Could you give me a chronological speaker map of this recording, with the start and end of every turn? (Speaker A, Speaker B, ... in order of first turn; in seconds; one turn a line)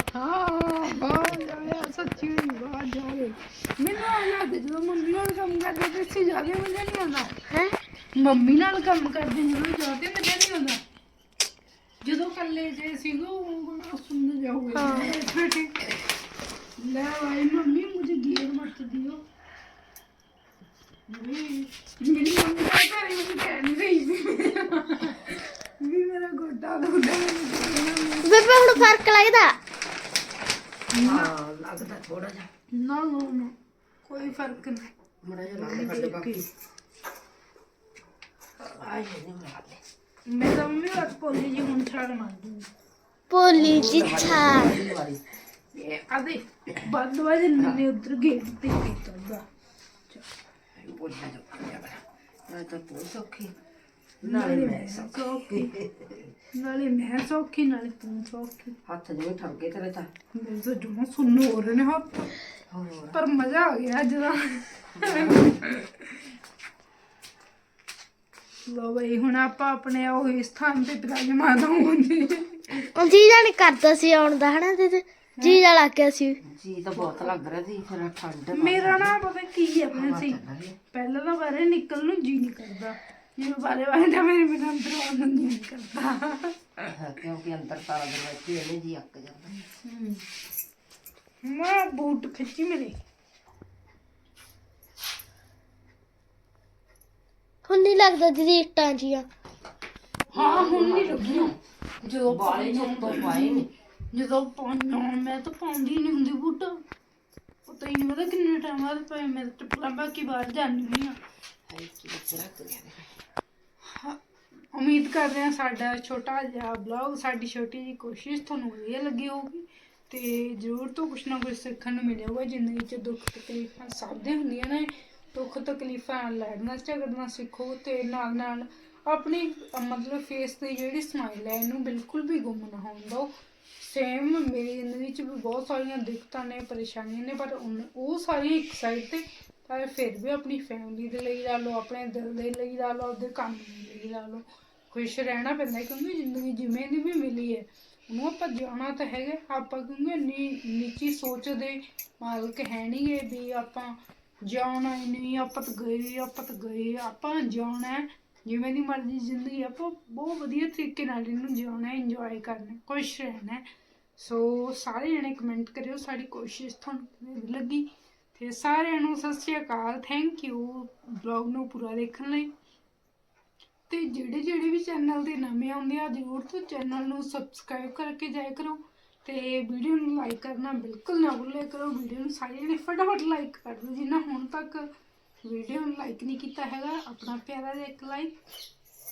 Speaker A: 0.1-7.3
Speaker B: 7.5-7.7
Speaker A: 8.1-10.8
Speaker A: 12.0-15.9
Speaker B: 14.7-15.1
Speaker A: 16.8-19.2
Speaker A: 21.1-28.9
Speaker B: 28.2-29.6
Speaker A: 30.9-31.3
Speaker C: 31.0-32.5
Speaker A: 32.7-34.9
Speaker C: 35.2-36.5
Speaker A: 35.5-36.5
Speaker C: 38.6-39.8
Speaker A: 40.3-42.7
Speaker B: 43.3-44.9
Speaker C: 43.5-45.2
Speaker A: 46.1-49.4
Speaker C: 50.8-53.5
Speaker A: 54.2-55.7
Speaker C: 54.2-56.3
Speaker A: 56.5-58.7
Speaker C: 58.9-60.1
Speaker A: 60.3-62.3
Speaker C: 62.7-63.2
Speaker A: 63.1-66.1
Speaker C: 65.0-65.6
Speaker A: 68.7-72.9
Speaker B: 72.9-76.4
Speaker A: 75.4-75.6
Speaker C: 76.4-79.1
Speaker A: 76.9-77.3
Speaker A: 78.5-80.4
Speaker C: 79.9-80.8
Speaker A: 80.9-86.6
Speaker C: 86.8-89.6
Speaker A: 89.8-90.2
Speaker A: 91.4-93.0
Speaker B: 97.7-99.3
Speaker C: 100.3-101.5
Speaker A: 100.3-106.8
Speaker C: 102.2-103.7
Speaker A: 107.7-111.2
Speaker C: 111.7-113.1
Speaker A: 113.8-114.2
Speaker A: 114.7-133.3
Speaker A: 133.8-163.7
Speaker A: 164.2-172.5
Speaker A: 173.9-184.9
Speaker A: 185.4-188.3